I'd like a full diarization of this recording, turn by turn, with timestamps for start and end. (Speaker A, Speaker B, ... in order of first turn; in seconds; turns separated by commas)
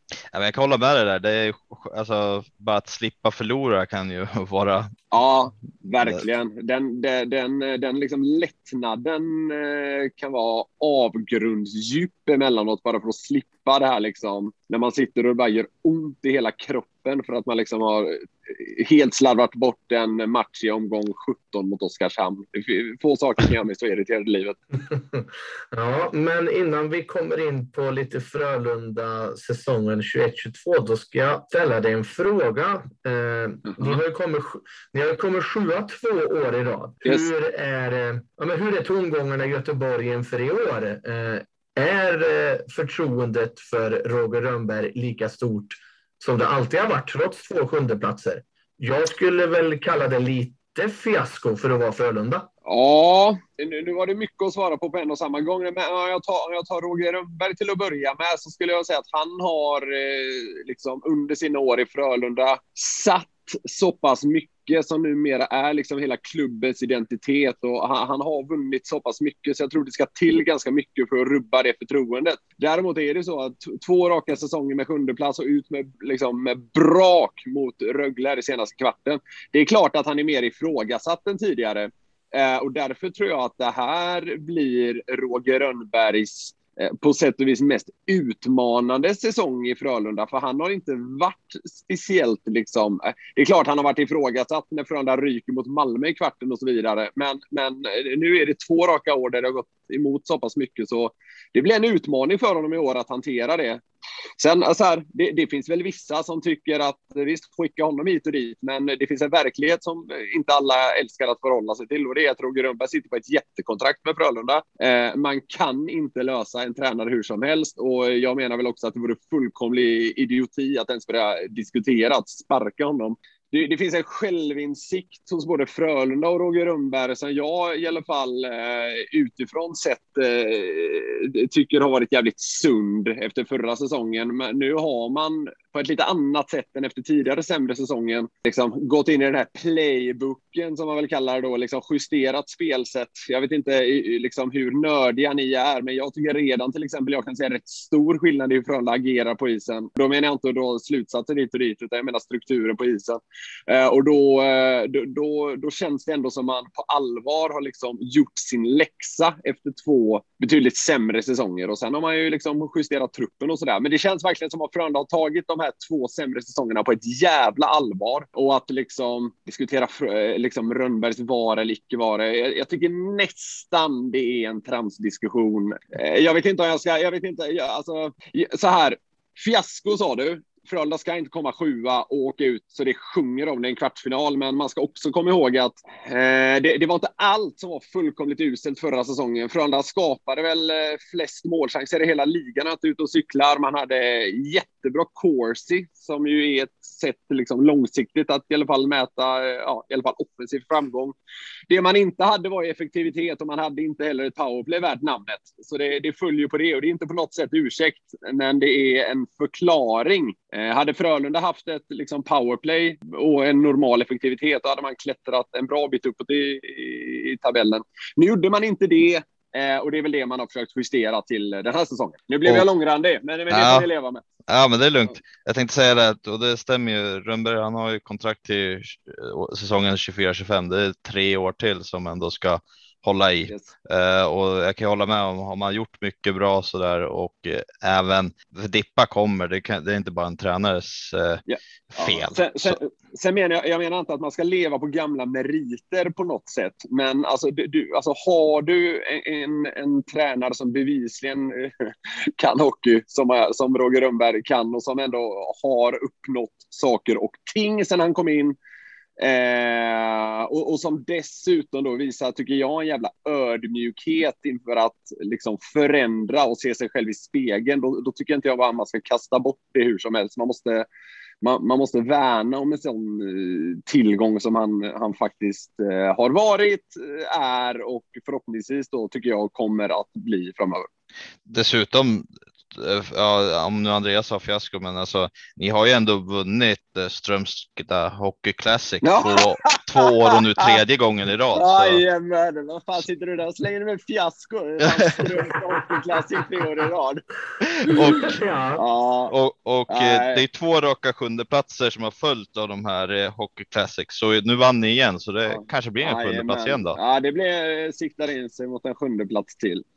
Speaker A: 0.3-5.0, Speaker B: 5.1-24.6, Speaker C: 24.8-52.5, Speaker B: 33.7-34.0, Speaker B: 52.6-103.8, Speaker B: 104.4-201.2, Speaker B: 201.7-224.2, Speaker A: 223.5-223.9, Speaker A: 224.5-242.8, Speaker B: 241.4-258.6, Speaker B: 259.2-270.9, Speaker B: 271.4-280.9, Speaker A: 281.4-292.0, Speaker B: 289.0-290.8, Speaker B: 291.5-297.2, Speaker A: 294.8-295.3, Speaker A: 297.8-298.4, Speaker C: 297.9-298.8, Speaker B: 298.8-299.3, Speaker A: 299.3-307.0, Speaker B: 299.9-300.4, Speaker B: 305.5-309.9